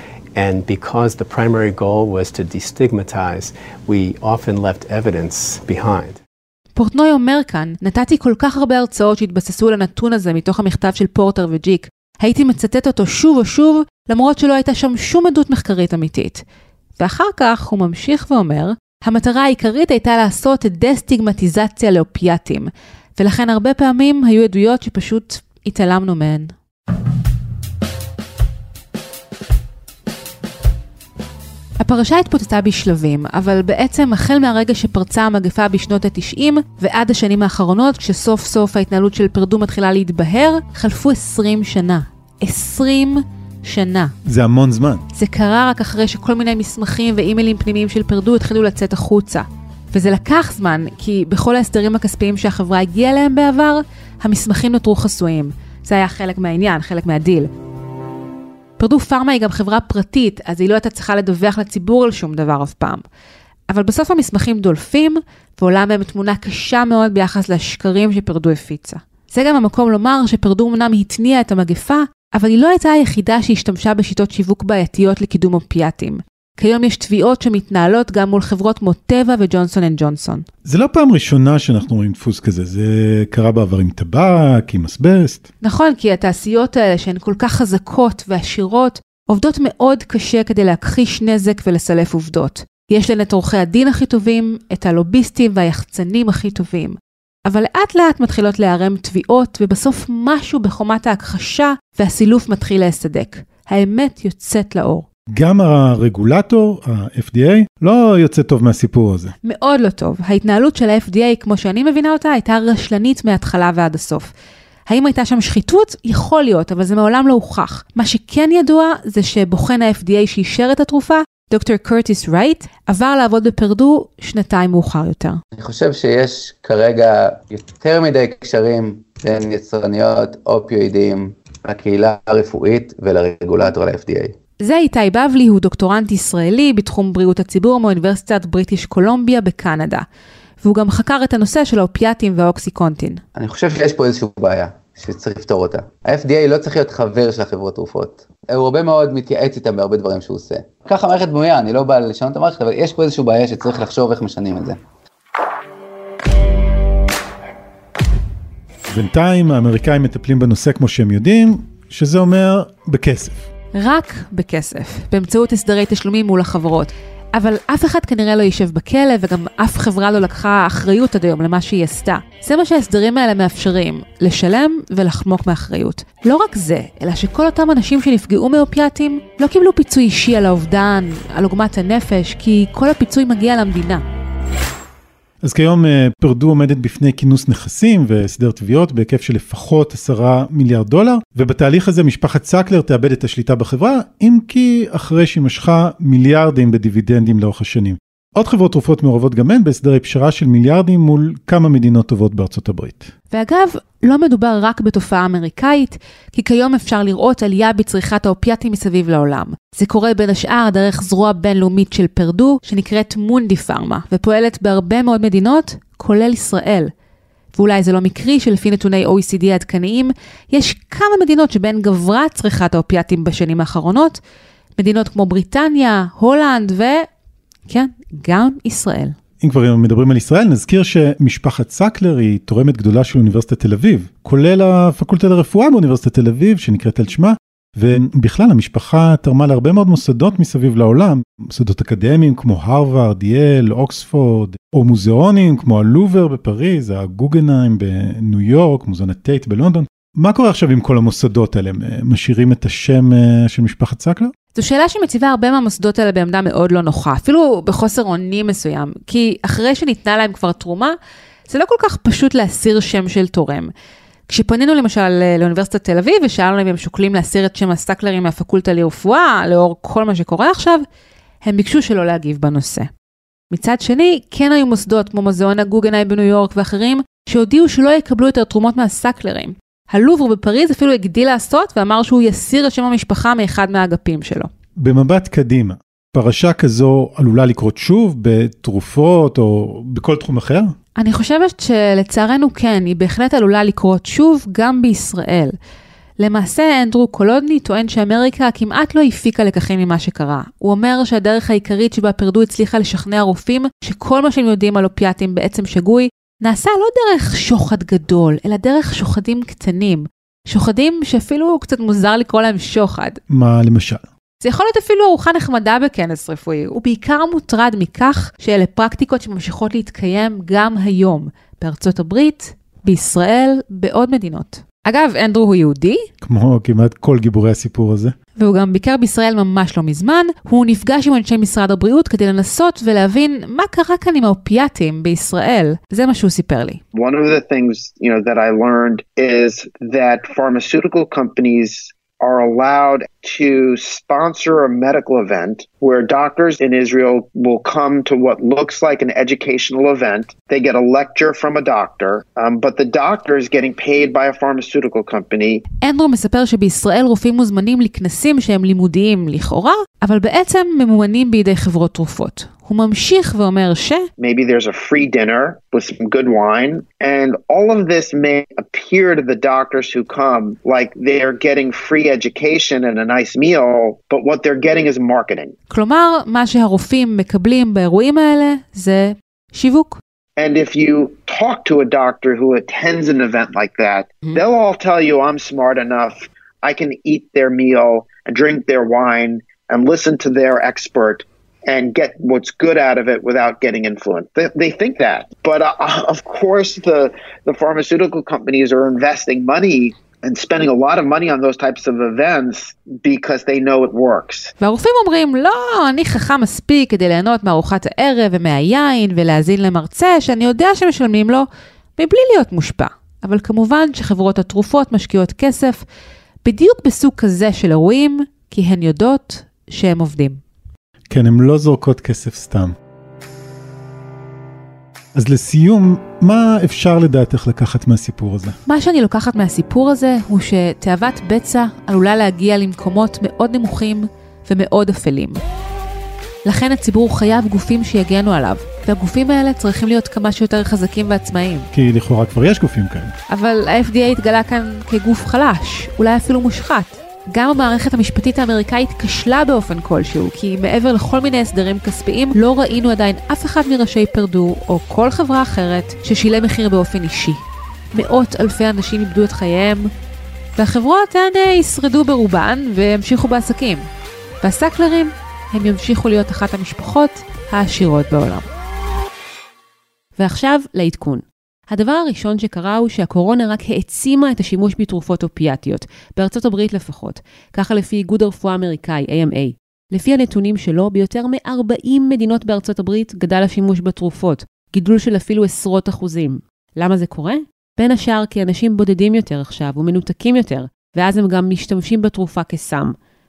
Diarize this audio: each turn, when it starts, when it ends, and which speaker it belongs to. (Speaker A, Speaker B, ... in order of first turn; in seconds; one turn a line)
Speaker A: 0.3-6.2
Speaker B: 6.8-16.4
Speaker B: 17.0-26.5
Speaker B: 31.8-44.1
Speaker C: 44.2-45.0
Speaker B: 45.1-57.5
Speaker B: 58.8-63.0
Speaker B: 63.7-80.4
Speaker C: 80.6-85.4
Speaker B: 85.6-97.0
Speaker B: 97.5-105.0
Speaker C: 105.3-109.3
Speaker B: 109.4-114.3
Speaker B: 114.9-125.4
Speaker D: 125.6-134.3
Speaker B: 134.6-140.0
Speaker B: 140.6-143.2
Speaker D: 143.3-154.8
Speaker C: 158.9-163.5
Speaker B: 163.8-184.0
Speaker C: 185.4-203.1
Speaker B: 203.3-216.9
Speaker B: 217.5-224.2
Speaker B: 224.8-227.1
Speaker B: 227.7-229.1
Speaker C: 229.4-254.3
Speaker B: 254.5-260.9
Speaker B: 261.5-263.7
Speaker B: 264.3-270.8
Speaker B: 271.4-272.9
Speaker B: 273.5-284.5
Speaker C: 284.8-290.7
Speaker B: 291.0-295.5
Speaker B: 296.2-313.2
Speaker C: 313.3-314.0
Speaker B: 314.4-326.0
Speaker C: 326.2-328.1
Speaker B: 328.4-336.8
Speaker E: 336.9-355.6
Speaker B: 355.8-364.1
Speaker E: 364.2-375.5
Speaker B: 375.7-380.0
Speaker E: 380.4-404.5
Speaker B: 404.6-411.4
Speaker B: 412.0-415.8
Speaker B: 416.4-420.4
Speaker C: 421.1-422.7
Speaker C: 425.1-428.6
Speaker B: 428.7-435.4
Speaker B: 436.4-441.7
Speaker C: 441.7-443.1
Speaker B: 443.3-457.4
Speaker B: 457.9-459.9
Speaker B: 460.6-463.8
Speaker B: 464.4-468.4
Speaker B: 470.2-492.9